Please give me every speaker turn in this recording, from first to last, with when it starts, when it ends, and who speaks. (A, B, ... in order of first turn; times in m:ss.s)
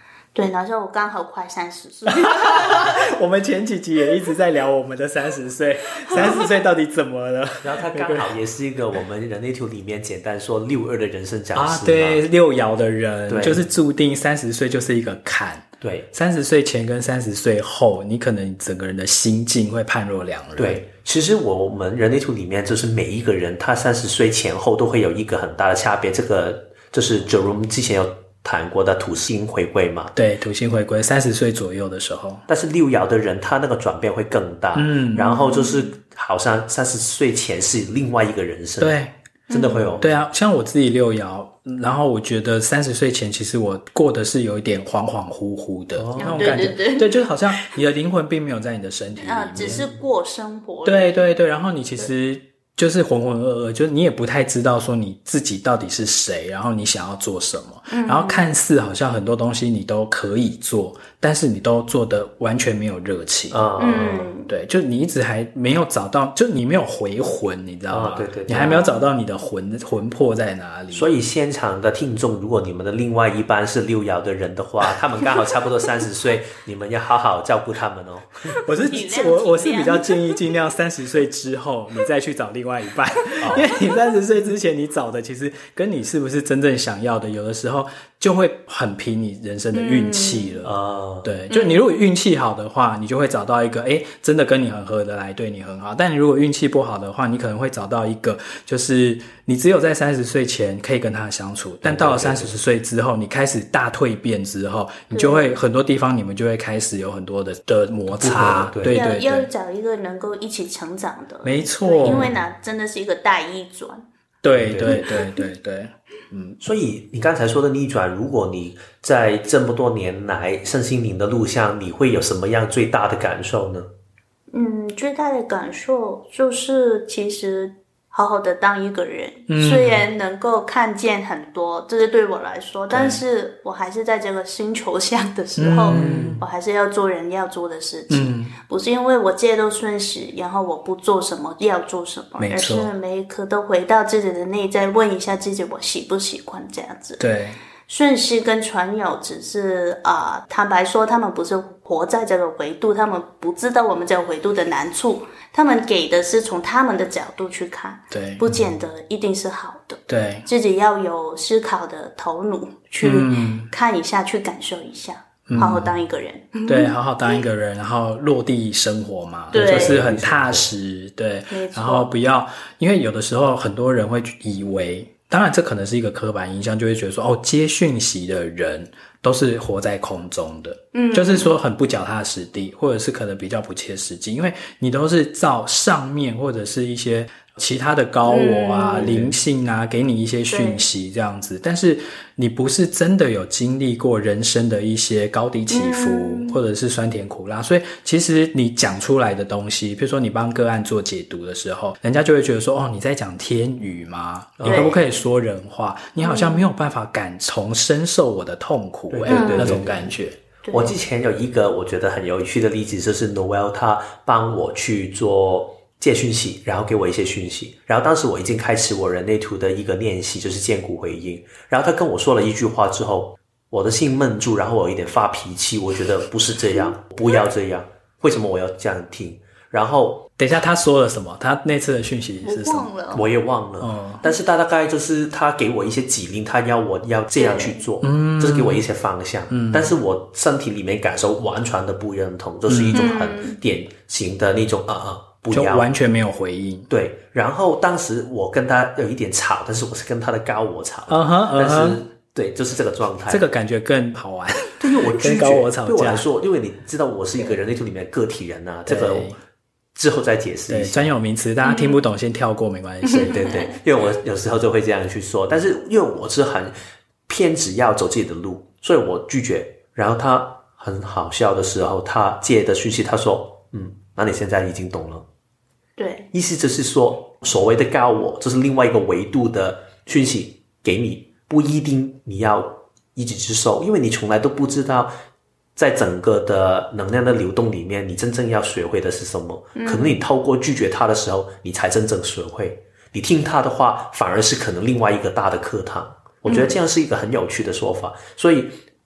0:00.3-0:03.0 A
0:02.1-0:08.3 B
0:07.6-0:12.2 C
0:11.5-0:20.8 B
0:13.3-0:13.6 C
0:15.8-0:16.1 C
0:20.6-0:30.1 C
0:30.1-0:32.4 B
0:32.5-0:39.0 C
0:34.7-0:35.3 B
0:35.2-0:35.9 A
0:38.8-0:39.1 B
0:39.5-0:40.0 A
0:39.5-0:40.1 C
0:40.0-0:49.8 B
0:46.0-0:46.7 C
0:46.2-0:47.7 A
0:49.2-0:51.3 A
0:50.8-1:03.7 B
0:57.9-0:58.6 A
1:03.5-1:04.3 C
1:03.8-1:04.5 A
1:04.5-1:11.1 B
1:07.9-1:08.8 C
1:08.5-1:09.1 A
1:10.9-1:18.6 C
1:18.6-1:20.4 A
1:18.6-1:49.5 B
1:23.4-1:23.7 C
1:29.7-1:30.6 A
1:30.6-1:31.3 C
1:31.5-1:31.8 A
1:41.8-1:42.5 C
1:45.1-1:45.6 A
1:48.1-1:49.0 C
1:48.9-1:54.0 A
1:51.4-1:52.3 B
1:52.0-1:52.4 C
1:54.4-1:56.6 B
1:54.5-1:55.2 C
1:54.8-1:55.4 A
1:56.6-2:03.9 C
2:04.5-2:27.2 A
2:09.5-2:10.0 B
2:15.6-2:16.4 B
2:15.9-2:16.4 C
2:18.1-2:18.5 B
2:22.4-2:22.9 B
2:27.2-2:27.6 B
2:27.9-2:47.0 A
2:38.1-2:38.6 B
2:40.1-2:40.5 B
2:43.0-2:43.7 B
2:45.5-2:45.9 B
2:46.6-3:30.4 B
2:49.5-2:50.0 A
2:49.5-2:50.7 C
2:51.5-2:52.1 A
3:00.9-3:01.5 A
3:08.2-3:09.2 A
3:08.9-3:09.4 C
3:10.5-3:10.8 A
3:15.7-3:16.6 A
3:24.6-3:25.0 C
3:24.6-3:25.0 A
3:26.2-3:26.7 A
3:29.1-3:30.2 C
3:29.3-3:29.8 A
3:30.6-3:30.9 A
3:30.7-3:50.3 C
3:46.7-3:47.4 A
3:50.4-3:52.9 B
3:52.4-3:53.2 A
3:53.1-4:05.9 C
3:53.8-3:54.2 B
3:57.3-3:57.8 A
3:58.0-3:58.8 B
3:59.5-3:59.9 B
4:02.7-4:03.1 B
4:02.9-4:03.6 A
4:05.5-4:06.9 B
4:06.9-4:13.4 C
4:11.1-4:12.0 B
4:13.3-4:16.3 B
4:14.8-4:19.3 C
4:18.9-4:19.4 B
4:19.9-4:21.1 C
4:20.7-4:23.6 B
4:21.6-4:22.0 A
4:23.1-4:23.5 A
4:23.2-4:26.7 C
4:27.3-4:35.2 C
4:36.0-4:36.3 A
4:36.3-4:45.1 C
4:45.8-4:58.8 C
4:49.8-4:50.2 A
4:56.4-4:56.8 A